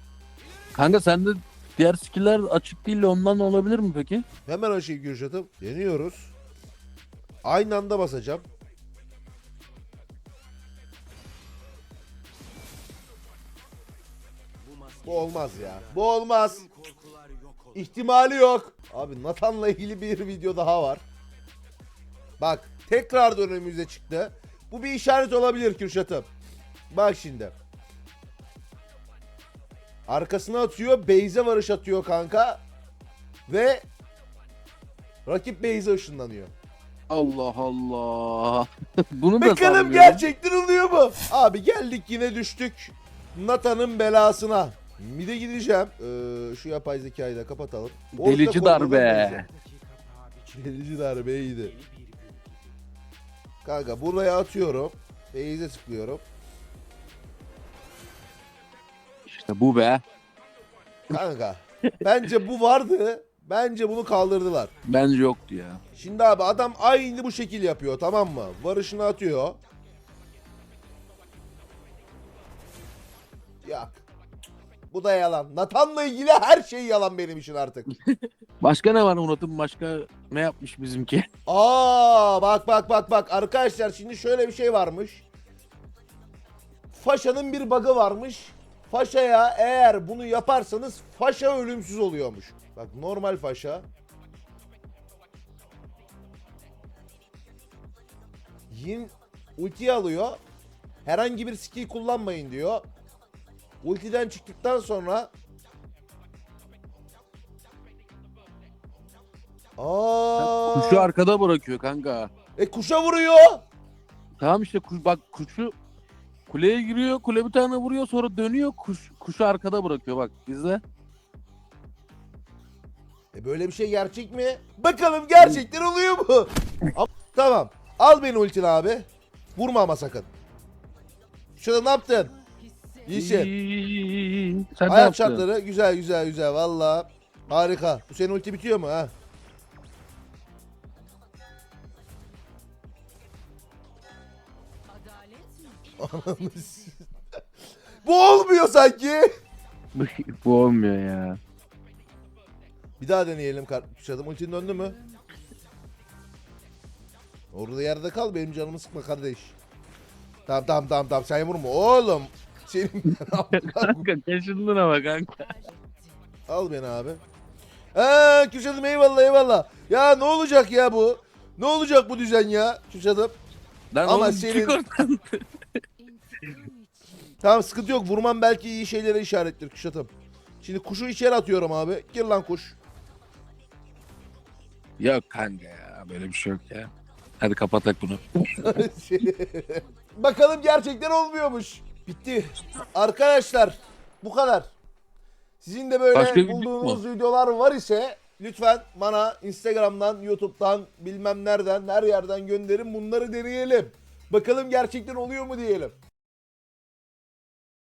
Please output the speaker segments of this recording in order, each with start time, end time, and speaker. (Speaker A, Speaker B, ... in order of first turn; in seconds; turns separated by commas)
Speaker A: 0.7-4.2, Speaker B: 4.5-6.3, Speaker B: 7.4-8.4, Speaker B: 15.0-16.7, Speaker B: 17.7-21.0, Speaker B: 22.4-26.3, Speaker B: 26.9-27.5, Speaker B: 30.1-32.6, Speaker B: 33.5-33.8, Speaker B: 35.2-36.5, Speaker A: 37.1-40.2, Speaker B: 39.4-49.4, Speaker A: 48.2-49.5, Speaker B: 50.5-51.7, Speaker B: 53.6-56.2, Speaker A: 59.3-60.0, Speaker B: 61.1-64.7, Speaker A: 64.8-65.8, Speaker B: 66.0-69.6, Speaker B: 73.6-74.0, Speaker B: 74.9-77.9, Speaker A: 78.6-81.3, Speaker B: 81.5-85.2, Speaker B: 86.9-93.8, Speaker B: 98.7-100.4, Speaker B: 101.0-102.8, Speaker B: 103.8-105.3, Speaker B: 109.8-111.1, Speaker A: 110.4-112.3, Speaker B: 112.5-113.6, Speaker A: 114.4-115.7, Speaker A: 116.5-120.8, Speaker B: 123.3-130.3, Speaker B: 131.6-132.3, Speaker B: 133.1-133.5, Speaker A: 133.1-135.4, Speaker B: 134.9-139.1, Speaker B: 146.0-147.0, Speaker B: 148.0-149.3, Speaker A: 149.9-151.4, Speaker B: 153.0-155.0, Speaker B: 157.5-159.5, Speaker B: 160.5-164.0, Speaker A: 163.5-165.6, Speaker B: 166.5-167.2, Speaker B: 167.9-173.3, Speaker A: 173.9-175.4, Speaker B: 174.0-174.8, Speaker B: 177.4-180.1, Speaker B: 180.6-182.8, Speaker A: 185.0-186.9, Speaker A: 187.4-188.7, Speaker B: 188.6-194.7, Speaker B: 195.6-205.9, Speaker A: 196.1-197.0